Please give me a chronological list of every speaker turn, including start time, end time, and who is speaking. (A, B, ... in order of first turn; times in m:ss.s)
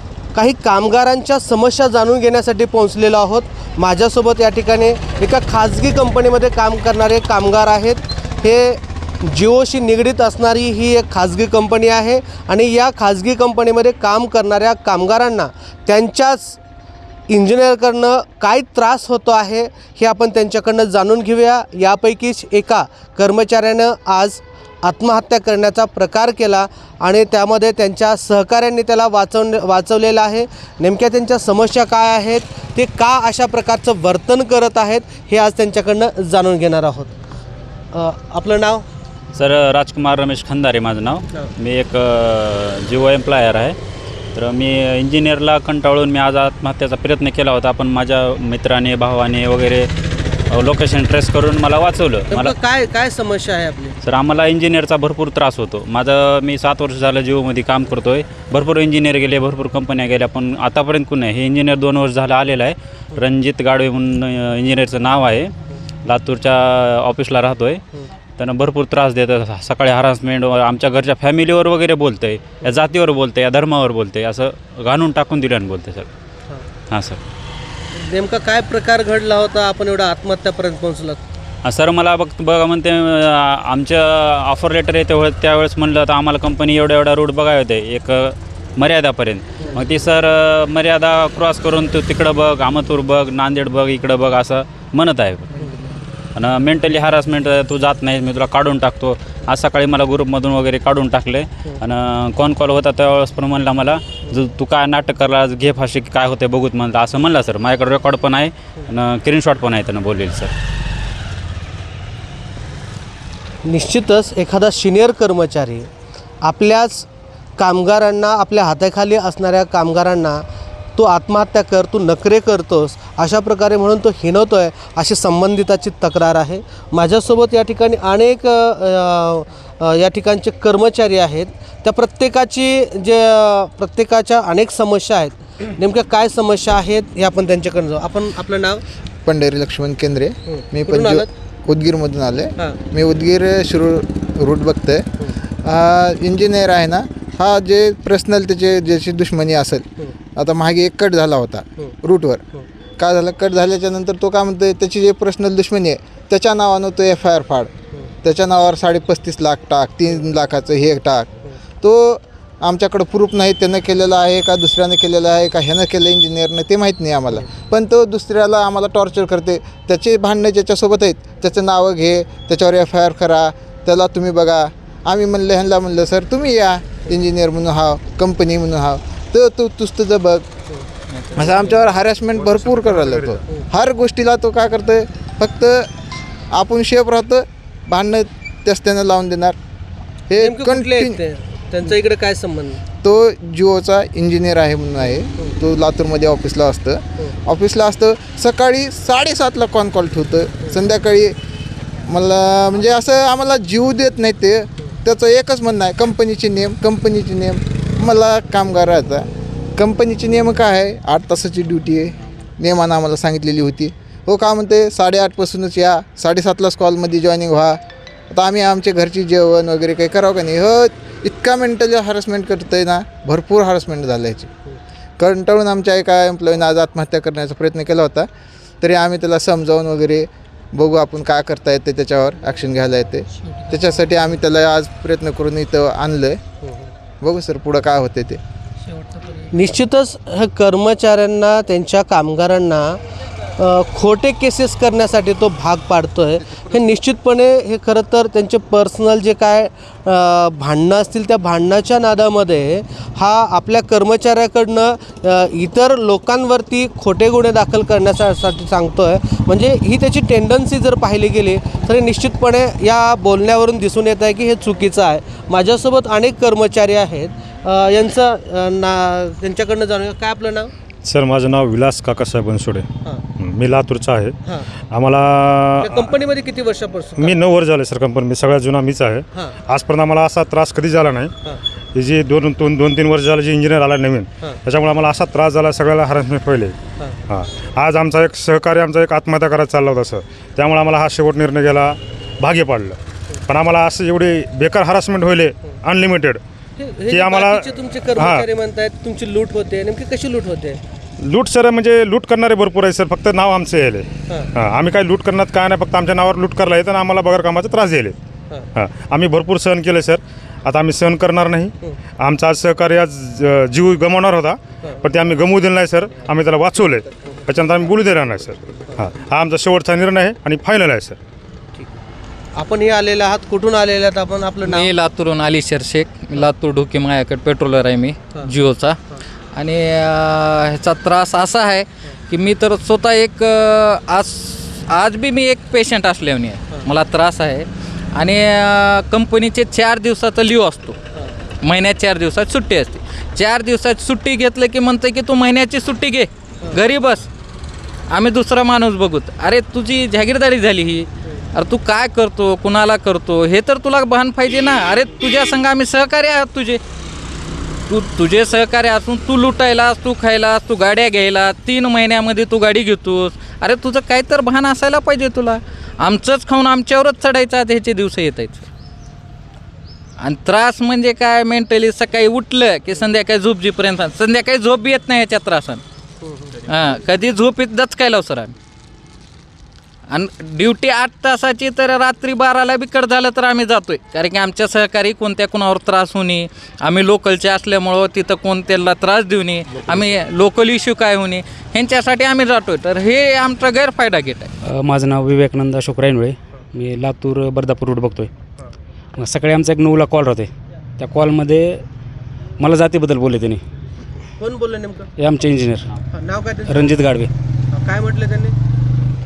0:00.3-0:16.6 A
0:17.3-0:37.1 A
0:37.9-0:38.8 A
0:39.4-0:43.8 B
0:44.3-0:49.9 B
0:50.5-0:52.6 B
0:52.3-0:54.0 A
0:54.0-1:05.5 B
1:06.0-1:07.8 B
1:08.4-1:16.1 B
1:16.9-1:17.2 B
1:17.9-1:21.2 A
1:21.6-1:35.5 B
1:36.4-1:50.5 B
1:53.6-1:55.9 A
1:56.4-1:57.1 A
1:57.6-2:00.4 A
2:01.0-2:18.8 A
2:19.3-2:25.1 C
2:20.5-2:21.3 A
2:25.6-2:29.8 C
2:30.4-2:32.4 C
2:33.0-2:37.7 C
2:38.2-2:41.3 C
2:41.8-3:00.5 C
3:01.3-3:05.9 C
3:02.8-3:03.1 D
3:06.5-3:09.6 C
3:10.3-3:11.2 C
3:10.4-3:12.8 A
3:13.0-3:21.4 C
3:15.0-3:15.5 A
3:22.1-3:37.8 C
3:38.3-3:44.5 C
3:45.2-3:48.3 C
3:48.8-3:56.4 C
3:56.6-3:56.9 A
3:57.2-3:58.4 C
3:59.5-4:03.0 A
4:03.6-4:30.7 A
4:31.0-4:32.9 D
4:33.4-4:34.4 D
4:34.9-4:36.0 D
4:35.8-4:37.5 A
4:37.3-4:41.3 D
4:42.0-4:46.8 D
4:47.3-4:53.0 D
4:53.5-4:56.4 D
4:56.8-5:00.8 A
4:57.1-4:57.6 D
5:01.2-5:08.2 D
5:08.8-5:18.6 D
5:19.0-5:19.2 E
5:19.3-5:21.2 D
5:22.6-5:24.9 A
5:24.6-5:29.0 F
5:29.5-5:41.0 F
5:41.6-5:47.3 F
5:48.1-5:56.8 F
5:57.9-6:08.7 F
6:10.2-6:15.8 F
6:16.3-6:16.6 A
6:16.7-6:18.5 F
6:20.1-6:34.5 F
6:34.8-6:38.3 E
6:39.2-6:41.8 E
6:42.6-6:43.6 E
6:44.4-6:45.1 A
6:45.2-6:45.9 E
6:46.1-6:47.1 A
6:46.7-6:47.3 E
6:47.7-6:48.5 A